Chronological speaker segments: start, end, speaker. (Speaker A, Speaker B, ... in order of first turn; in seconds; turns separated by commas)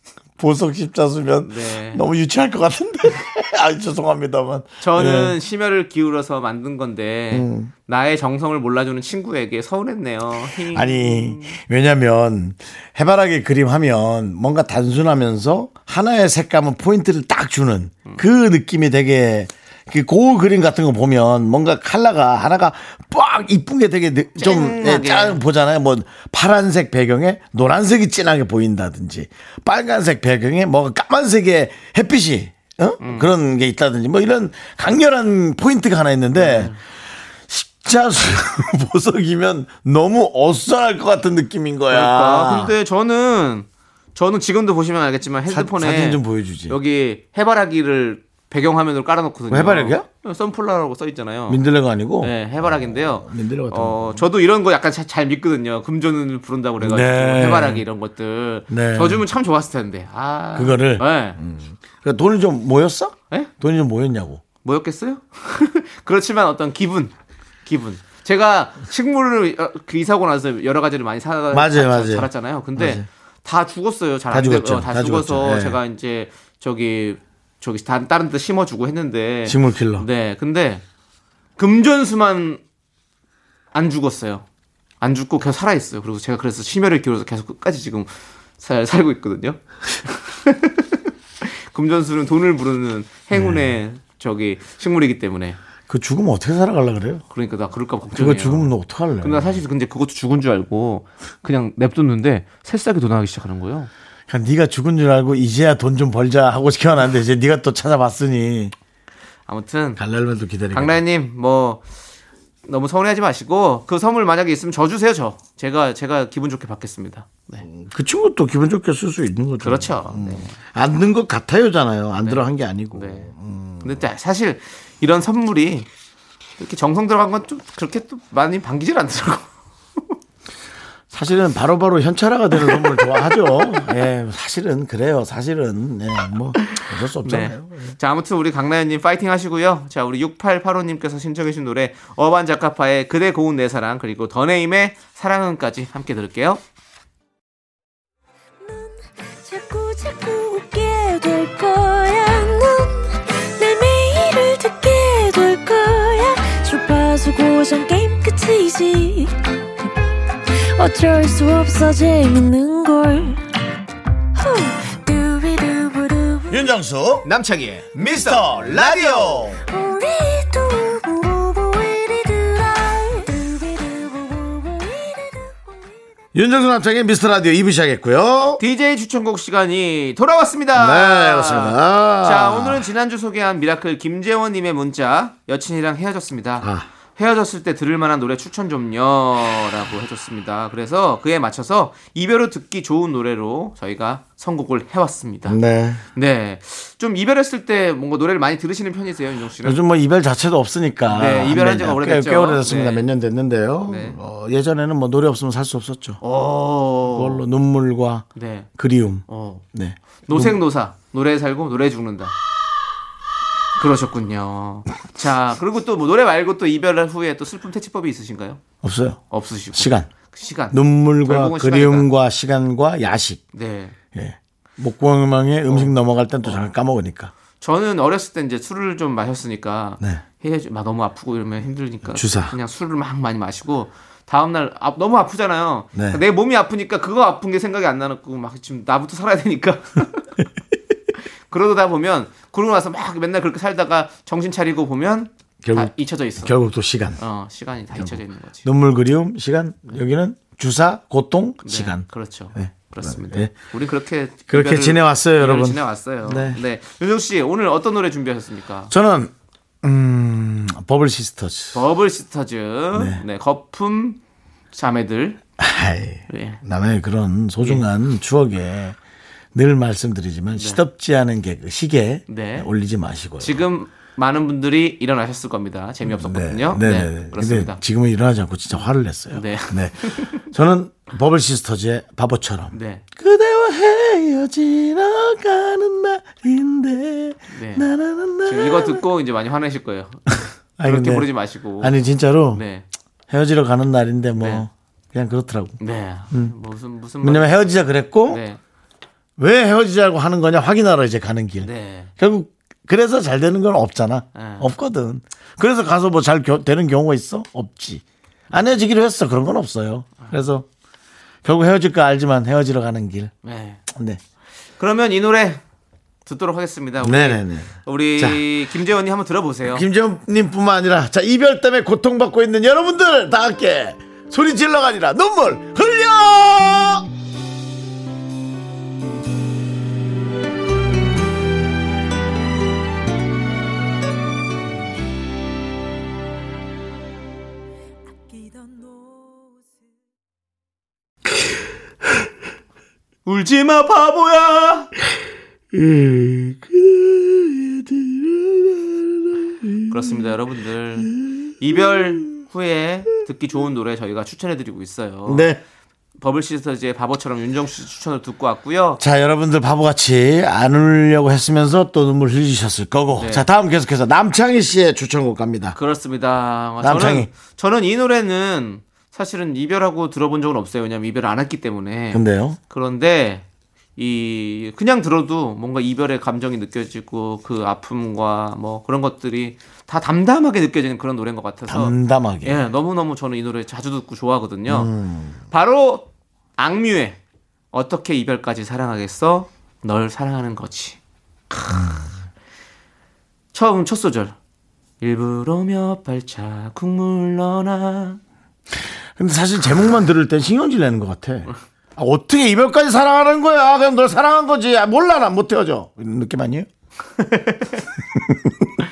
Speaker A: 0.4-5.3, Speaker B: 1.4-2.0, Speaker B: 4.8-11.6, Speaker A: 7.3-7.7, Speaker A: 10.7-36.8, Speaker B: 24.4-25.4, Speaker B: 33.0-33.3, Speaker B: 36.3-36.8, Speaker A: 37.5-42.7, Speaker B: 41.9-51.6, Speaker A: 45.5-46.8, Speaker A: 49.5-50.1, Speaker A: 51.5-54.3, Speaker B: 52.2-61.4, Speaker A: 56.8-57.9, Speaker A: 58.7-59.2, Speaker A: 60.5-64.4, Speaker B: 64.6-67.1, Speaker B: 67.6-80.8, Speaker A: 71.5-73.0, Speaker A: 74.3-75.8, Speaker A: 79.5-80.0, Speaker B: 81.6-82.6, Speaker B: 83.7-84.4, Speaker B: 85.0-95.6, Speaker A: 93.3-93.8, Speaker A: 95.9-97.2, Speaker B: 97.3-103.9, Speaker A: 98.1-99.6, Speaker A: 104.3-108.7, Speaker B: 109.5-110.0, Speaker A: 110.0-111.0, Speaker B: 110.7-111.8, Speaker B: 112.7-117.6, Speaker A: 117.6-124.1, Speaker B: 119.6-120.6, Speaker B: 122.2-123.3, Speaker B: 123.8-125.9, Speaker B: 126.6-130.1, Speaker A: 131.1-137.9, Speaker B: 132.5-133.9, Speaker B: 136.6-146.6, Speaker C: 148.6-159.3, Speaker C: 160.7-163.4, Speaker C: 164.3-166.7, Speaker A: 166.5-167.3, Speaker B: 167.2-169.5, Speaker A: 167.9-169.6, Speaker C: 169.7-175.9, Speaker A: 176.3-178.6, Speaker B: 178.6-195.6, Speaker A: 180.7-182.8, Speaker A: 186.6-186.9, Speaker A: 195.4-196.0, Speaker B: 196.1-199.8, Speaker A: 199.6-206.2, Speaker B: 201.1-203.1, Speaker B: 203.9-204.2, Speaker B: 206.2-207.4, Speaker A: 207.1-208.2, Speaker B: 208.3-208.7, Speaker A: 208.8-210.6, Speaker B: 209.3-209.6, Speaker B: 210.2-212.3, Speaker B: 213.8-218.6, Speaker A: 218.8-219.2, Speaker B: 219.3-222.1, Speaker A: 219.7-220.1, Speaker A: 220.7-223.4, Speaker B: 223.5-224.0, Speaker A: 224.1-227.3, Speaker B: 225.7-226.7, Speaker B: 227.6-240.3, Speaker A: 232.1-232.6, Speaker A: 235.9-236.2, Speaker B: 241.5-246.5, Speaker A: 245.6-247.2, Speaker B: 247.2-248.7, Speaker A: 247.9-253.5, Speaker B: 251.6-258.9, Speaker A: 254.5-256.6, Speaker A: 258.9-261.8, Speaker B: 261.7-264.2, Speaker A: 262.9-263.2, Speaker B: 264.7-265.4, Speaker A: 265.6-269.0, Speaker B: 266.3-266.6, Speaker A: 269.5-273.6, Speaker B: 270.5-270.8, Speaker B: 272.3-272.7, Speaker B: 273.4-277.8, Speaker A: 276.0-289.0, Speaker B: 279.3-280.4, Speaker B: 282.7-283.0, Speaker B: 287.5-287.9, Speaker B: 288.4-291.9, Speaker A: 290.4-292.6, Speaker B: 292.5-292.9, Speaker A: 293.3-295.8, Speaker B: 294.4-294.6, Speaker B: 295.8-297.7, Speaker A: 297.2-298.4, Speaker B: 298.3-298.6, Speaker A: 299.4-310.6, Speaker B: 301.6-302.1, Speaker B: 304.3-304.7, Speaker A: 311.4-313.3, Speaker B: 313.4-313.8, Speaker A: 313.9-314.2, Speaker B: 314.8-315.6, Speaker B: 316.2-319.8, Speaker A: 317.0-318.4, Speaker A: 319.7-327.1, Speaker C: 338.4-339.2, Speaker B: 343.2-344.9, Speaker A: 345.7-350.3, Speaker B: 349.9-355.5, Speaker A: 351.1-352.3, Speaker A: 355.2-355.6, Speaker B: 356.2-359.0, Speaker A: 359.0-365.8, Speaker B: 363.1-363.5, Speaker B: 365.7-373.4, Speaker A: 366.8-367.3, Speaker A: 372.1-372.6, Speaker B: 374.0-384.9, Speaker A: 381.7-382.6, Speaker A: 384.7-385.4, Speaker B: 385.5-387.2, Speaker B: 387.7-391.0, Speaker B: 391.5-392.1, Speaker A: 391.7-392.1, Speaker B: 393.5-394.3, Speaker B: 395.0-398.2, Speaker A: 399.2-406.7, Speaker B: 407.2-407.8, Speaker A: 408.1-408.7